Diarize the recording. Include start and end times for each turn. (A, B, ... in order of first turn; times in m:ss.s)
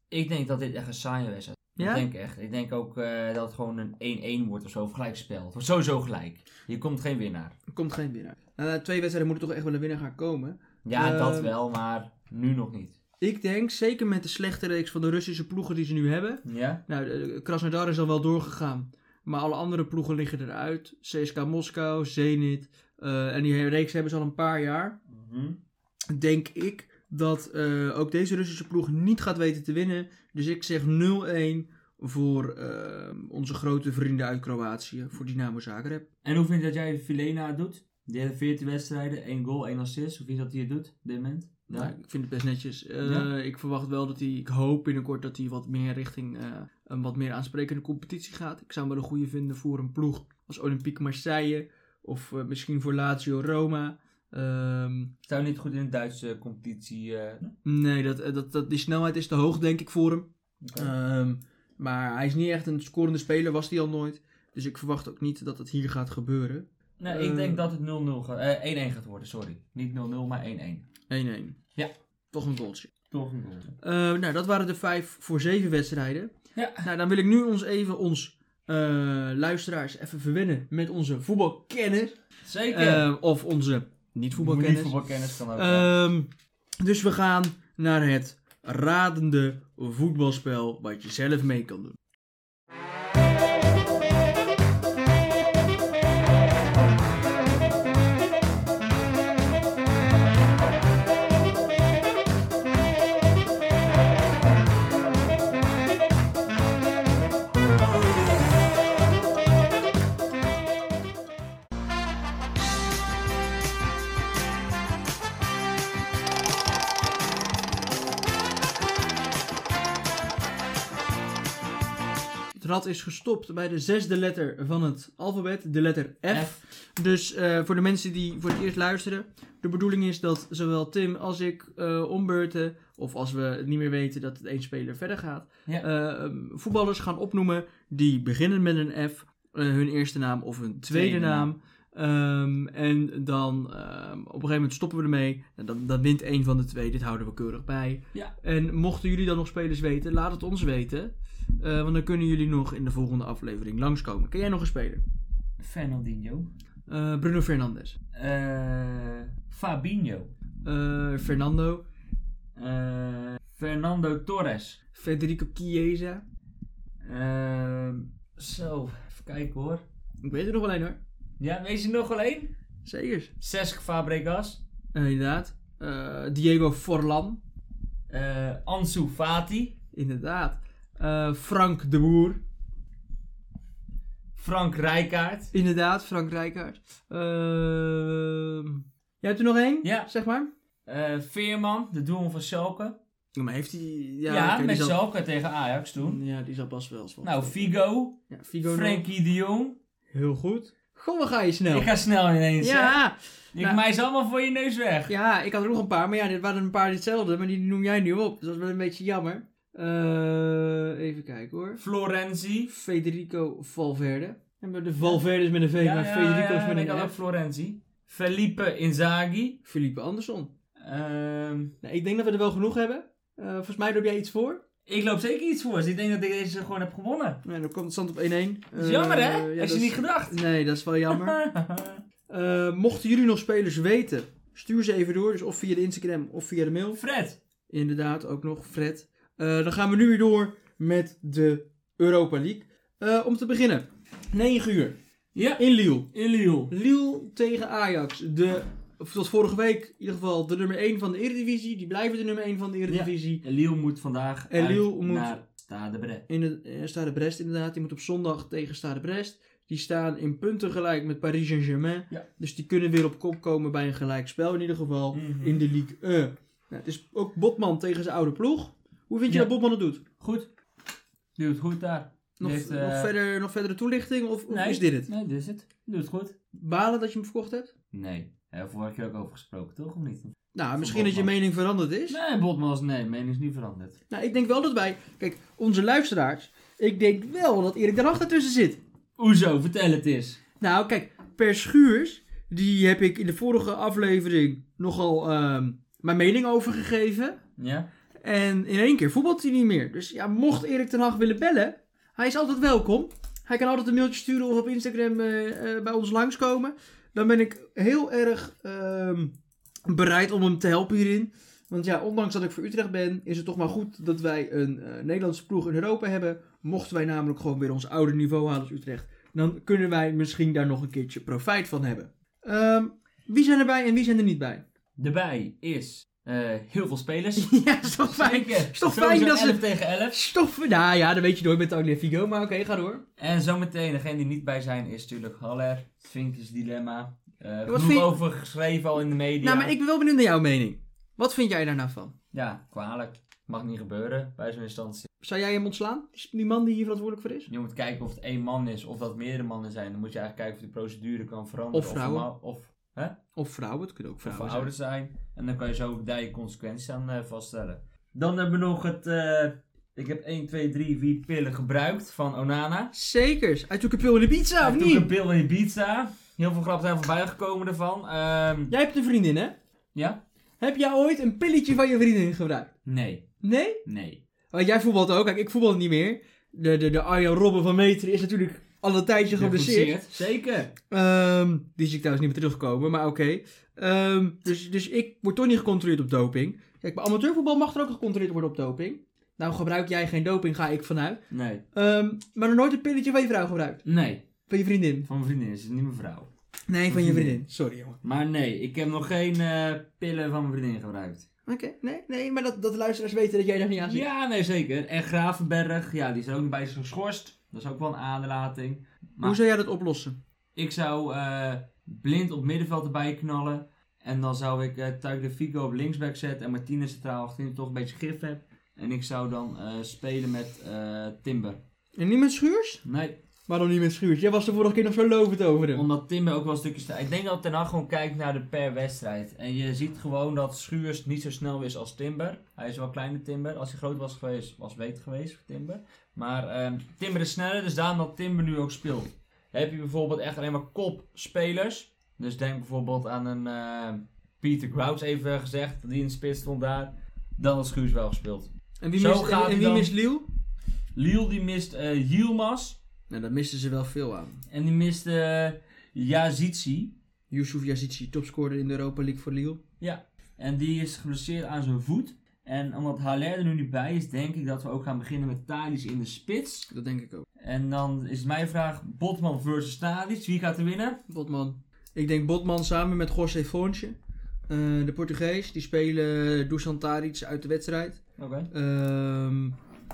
0:00.1-0:07.6 A
0:01.8-0:02.1 B
0:07.7-0:11.5 B
0:10.8-0:13.0 A
0:13.2-0:25.0 B
0:16.4-0:16.8 A
0:25.1-0:25.6 A
0:26.1-0:36.1 B
0:36.2-0:41.9 A
0:41.7-0:55.1 B
0:43.0-0:43.3 A
0:55.3-0:57.6 A
0:57.6-1:07.7 B
1:00.6-1:00.9 A
1:07.0-1:10.9 A
1:11.1-1:11.6 B
1:12.3-1:12.9 B
1:13.1-1:13.8 A
1:13.8-1:22.2 B
1:16.6-1:16.9 A
1:22.4-1:23.1 A
1:22.7-1:25.0 B
1:24.4-1:25.9 A
1:25.5-1:26.3 B
1:26.8-1:32.0 B
2:02.6-2:35.0 B
2:06.3-2:06.6 A
2:20.9-2:21.5 A
2:35.6-2:36.5 A
2:36.9-2:38.0 B
2:38.1-2:40.3 A
2:40.6-2:41.8 B
2:42.6-2:44.8 A
2:45.0-2:46.2 B
2:47.0-2:49.8 A
2:50.2-2:51.0 B
2:51.4-2:52.5 A
2:52.8-2:53.3 B
2:53.4-2:54.6 A
2:54.9-2:57.4 B
2:58.1-2:59.8 A
2:59.9-3:02.4 B
3:04.4-3:05.5 A
3:05.5-3:10.5 B
3:09.8-3:10.1 A
3:10.9-3:13.0 A
3:13.4-3:15.0 B
3:14.3-3:16.2 A
3:16.0-3:17.7 B
3:17.2-3:19.8 A
3:18.3-3:19.1 B
3:20.1-3:21.9 B
3:21.7-3:23.0 A
3:22.6-3:23.8 B
3:23.5-3:25.2 A
3:25.1-3:31.8 B
3:31.8-3:32.7 A
3:32.7-3:37.2 B
3:35.8-3:39.6 A
3:39.6-3:40.5 B
3:40.8-3:41.7 A
3:41.8-3:44.6 B
3:44.9-3:47.4 A
3:47.4-3:51.4 B
3:48.8-3:50.4 A
3:51.1-3:52.0 A
3:52.3-3:57.0 B
3:56.9-3:57.4 A
3:57.7-4:05.0 B
4:05.4-4:06.7 A
4:05.6-4:06.1 B
4:06.7-4:13.4 B
4:12.9-4:16.2 A
4:14.5-4:15.3 B
4:16.3-4:30.0 B
4:25.1-4:25.6 A
4:30.2-4:30.5 A
4:31.4-4:33.1 A
4:32.4-4:35.1 B
4:34.5-4:36.4 A
4:36.5-4:37.7 B
4:37.9-4:41.4 A
4:40.6-4:42.2 B
4:42.1-4:44.0 A
4:44.1-4:48.8 B
4:49.2-4:50.4 A
4:50.6-4:57.4 B
4:57.6-4:57.9 A
4:58.2-5:09.3 B
5:09.9-5:24.6 B
5:25.0-5:30.2 A
5:27.4-5:33.0 B
5:33.2-5:39.7 A
5:37.7-5:38.2 B
5:39.4-5:42.2 B
5:42.3-5:45.1 A
5:45.2-5:47.5 B
5:47.5-5:53.2 A
5:51.7-5:52.3 B
5:53.4-5:54.7 B
5:54.2-6:02.9 A
6:02.9-6:05.1 B
6:04.6-6:08.7 A
6:08.7-6:09.6 B
6:10.0-6:10.2 A
6:10.6-6:12.7 B
6:12.9-6:13.3 A
6:13.4-6:13.8 B
6:13.8-6:14.2 A
6:14.5-6:20.1 B
6:19.3-6:20.7 A
6:20.9-6:31.2 B
6:31.3-6:31.6 A
6:31.7-6:33.8 B
6:33.8-6:34.3 A
6:34.5-6:35.1 B
6:35.1-6:36.3 A
6:36.7-6:38.0 B
6:36.9-6:37.4 A
6:38.0-6:41.3 A
6:41.5-6:44.1 B
6:43.8-6:49.4 A
6:49.2-6:50.2 B
6:50.6-7:01.6 A
7:02.0-7:02.8 B
7:02.8-7:03.2 A
7:03.5-7:05.9 B
7:05.7-7:29.9 A
7:28.8-7:30.3 B
7:31.0-7:32.8 A
7:33.1-7:34.4 B
7:34.5-7:37.0 A
7:37.3-7:39.6 B
7:39.8-7:46.7 A
7:46.7-7:47.3 B
7:47.4-7:51.0 A
7:51.1-7:54.0 B
7:54.5-7:59.6 B
7:58.2-7:58.5 A